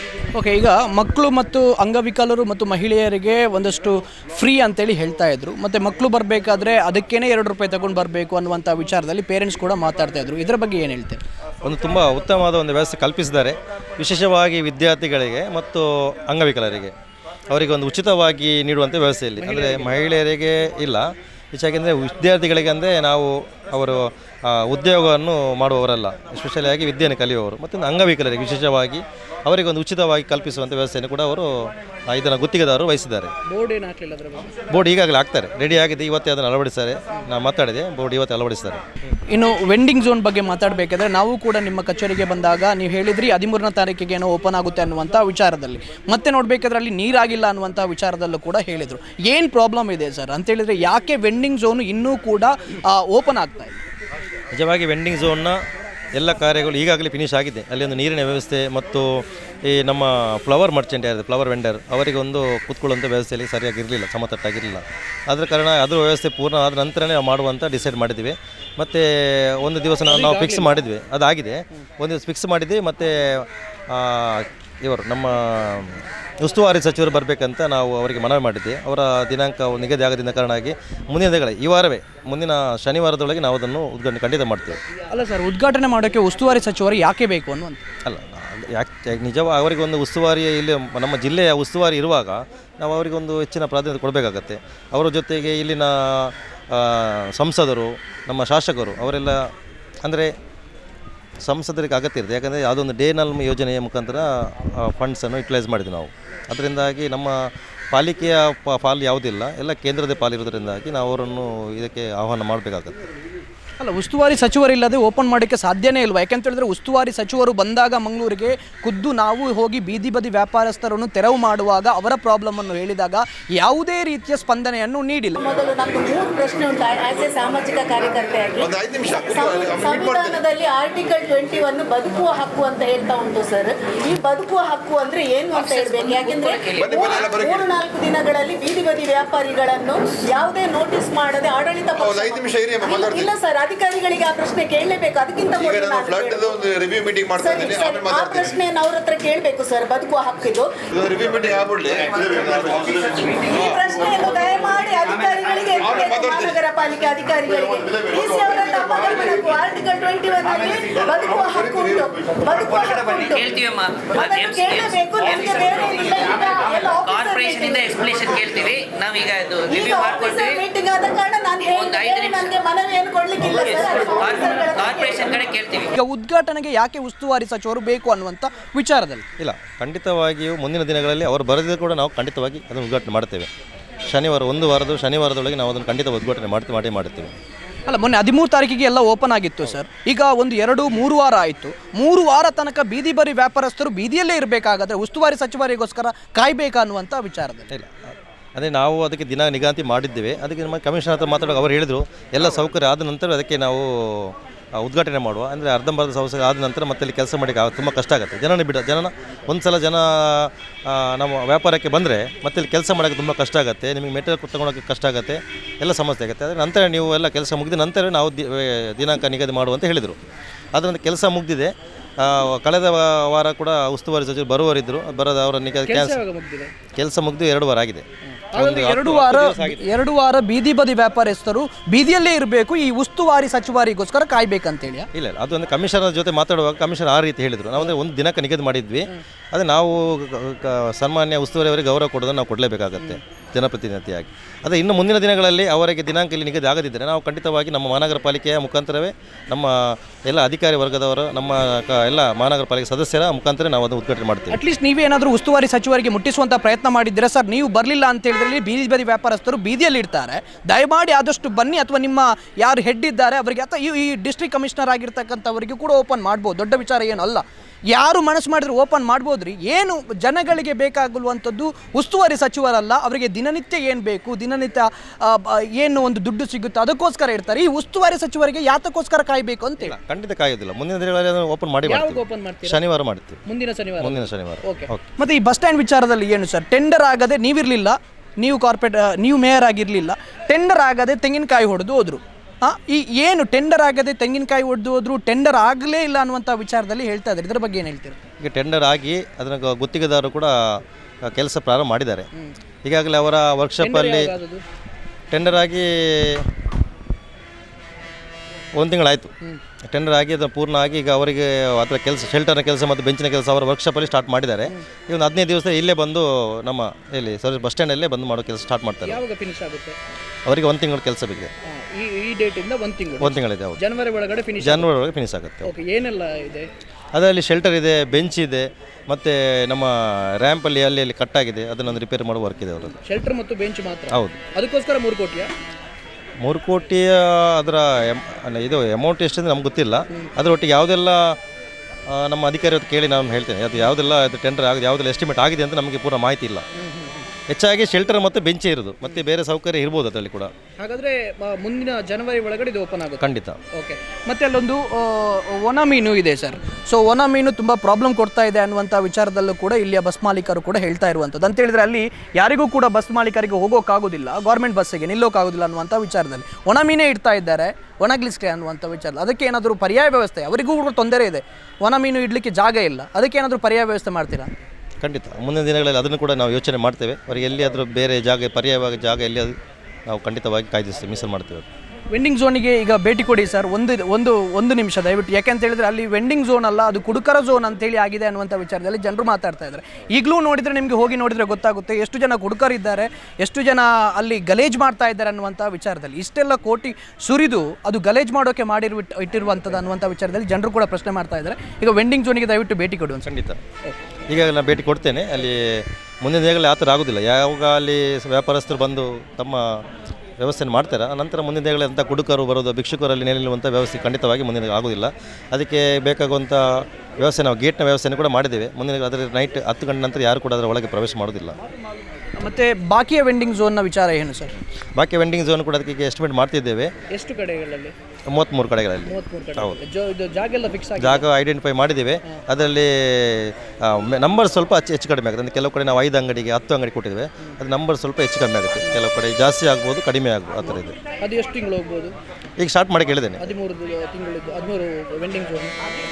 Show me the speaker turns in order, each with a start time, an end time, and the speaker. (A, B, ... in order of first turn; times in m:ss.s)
0:00.3-0:11.2 A
0:11.6-0:16.9 B
0:17.5-0:33.3 B
0:19.4-0:19.9 A
0:33.4-0:34.5 A
0:34.7-0:38.8 B
0:39.3-0:53.8 A
0:54.5-0:55.6 B
0:56.1-1:24.8 B
1:10.1-1:10.8 A
1:25.1-1:27.8 A
1:28.0-1:39.5 B
1:40.0-1:40.3 B
1:41.4-1:53.0 B
1:53.8-2:05.4 A
2:05.4-2:26.6 C
2:08.6-2:10.4 D
2:15.6-2:17.2 E
2:16.8-2:17.7 D
2:22.0-2:23.3 D
2:25.6-2:28.6 D
2:27.4-2:30.8 C
2:30.9-2:34.2 D
2:33.3-2:43.6 C
2:35.8-2:36.6 D
2:37.5-2:39.6 D
2:41.1-2:42.1 D
2:43.0-2:50.6 E
2:44.1-2:48.4 C
2:49.7-2:55.5 C
2:51.6-2:52.6 E
2:53.6-2:55.9 E
2:55.9-2:59.2 A
2:59.4-3:03.5 B
3:04.0-3:07.3 B
3:07.9-3:17.7 A
3:17.7-3:18.0 B
3:18.5-3:40.2 B
3:40.7-3:46.2 B
3:45.9-3:46.7 A
3:46.9-3:49.8 B
3:48.4-3:55.1 A
3:55.1-4:14.6 B
4:14.5-4:40.0 A
4:39.8-4:43.4 B
4:41.8-4:42.8 A
4:43.5-4:58.2 A
4:44.0-4:45.1 B
4:58.4-5:00.5 B
5:01.2-5:02.3 B
5:02.8-5:04.3 B
5:03.8-5:04.6 A
5:05.3-5:06.4 B
5:08.7-5:19.2 B
5:19.0-5:20.0 A
5:20.4-5:21.5 B
5:21.7-5:24.9 A
5:23.2-5:23.8 B
5:24.6-5:25.7 B
5:25.6-5:26.7 A
5:27.1-5:33.0 B
5:33.0-5:35.5 A
5:34.1-5:34.4 B
5:36.4-5:41.4 B
5:42.1-5:46.6 B
5:46.8-5:47.2 A
5:47.5-5:50.5 B
5:50.8-5:53.2 A
5:53.2-5:53.6 B
5:53.7-6:14.5 A
6:15.0-6:19.6 B
6:20.1-6:21.6 B
6:22.1-6:43.3 A
6:43.2-6:43.6 B
6:44.3-6:49.8 B
6:50.4-7:01.6 B
7:02.4-7:04.5 A
7:05.0-7:06.9 B
7:07.1-7:07.9 A
7:08.3-7:09.8 B
7:09.1-7:11.2 A
7:11.0-7:21.0 B
7:20.6-7:22.1 A
7:22.6-7:23.4 B
7:23.4-7:25.7 A